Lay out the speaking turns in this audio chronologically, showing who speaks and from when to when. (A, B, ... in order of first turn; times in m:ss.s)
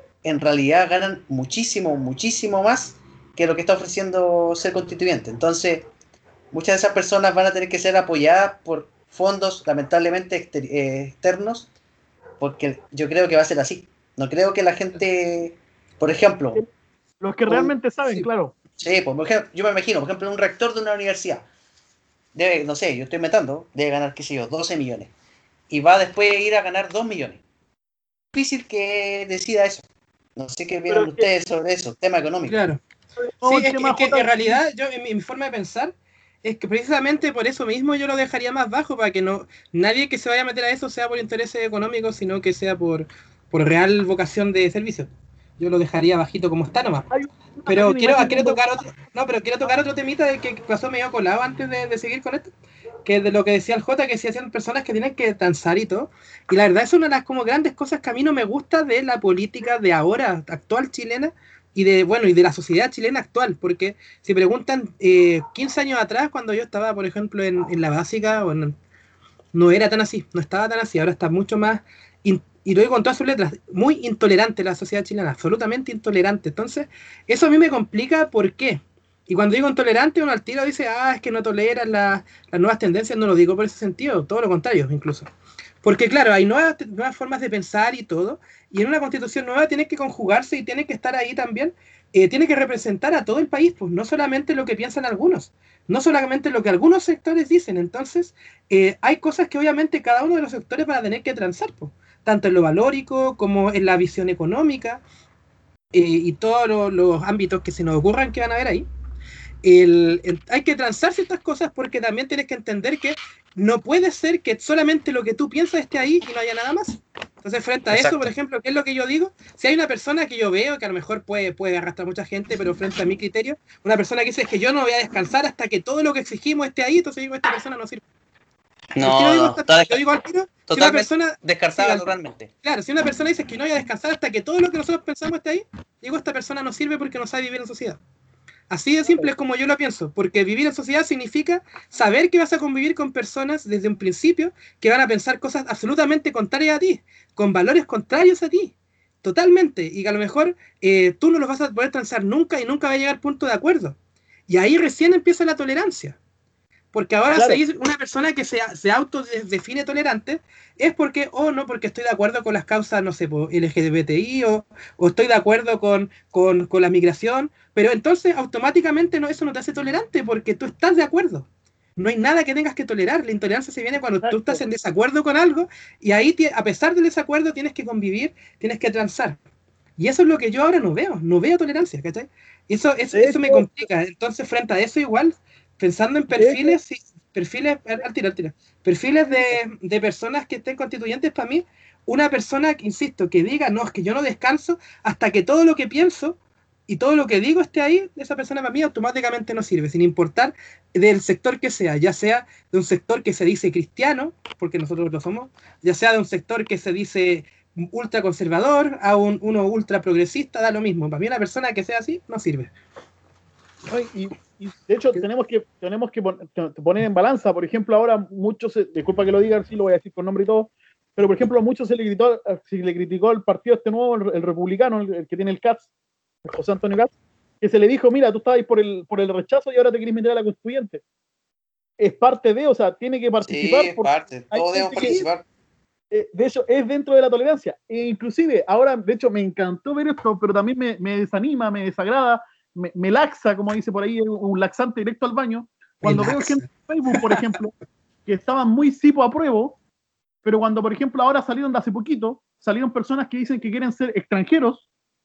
0:00.2-0:05.9 A
0:06.5-0:11.7 A
0:12.4-0:16.6 A
0:17.2-0:18.5 B
0:17.5-0:17.7 A
0:18.8-0:21.5 A
0:22.4-0:25.1 A
0:25.7-0:27.4 A
0:28.3-0:29.8 A
0:30.4-0:32.6 A
0:30.9-0:31.3 B
0:32.5-0:32.8 C
0:33.2-0:34.6 B
0:33.4-0:47.1 C
0:47.1-0:48.6 B
0:47.7-0:52.5 C
0:53.0-1:08.8 C
1:09.5-1:25.3 C
1:25.8-1:45.0 C
1:45.9-1:48.9 C
1:49.6-2:08.0 C
1:57.9-1:58.3 A
2:09.0-2:10.0 A
2:09.0-2:12.1 C
2:10.7-2:12.5 A
2:12.6-2:18.0 C
2:18.7-2:34.0 C
2:34.5-2:36.2 C
2:36.9-2:51.5 C
2:37.3-2:37.6 B
2:52.0-2:59.4 C
2:54.2-2:54.6 B
3:00.0-3:16.4 C
3:03.1-3:03.9 B
3:06.4-3:06.8 B
3:16.9-3:32.7 C
3:33.9-3:45.9 B
3:46.4-3:51.0 B
3:52.0-3:55.3 B
3:53.4-3:55.4 A
3:56.1-4:07.7 B
4:06.0-4:07.6 C
4:08.3-4:09.8 B
4:10.4-4:14.9 B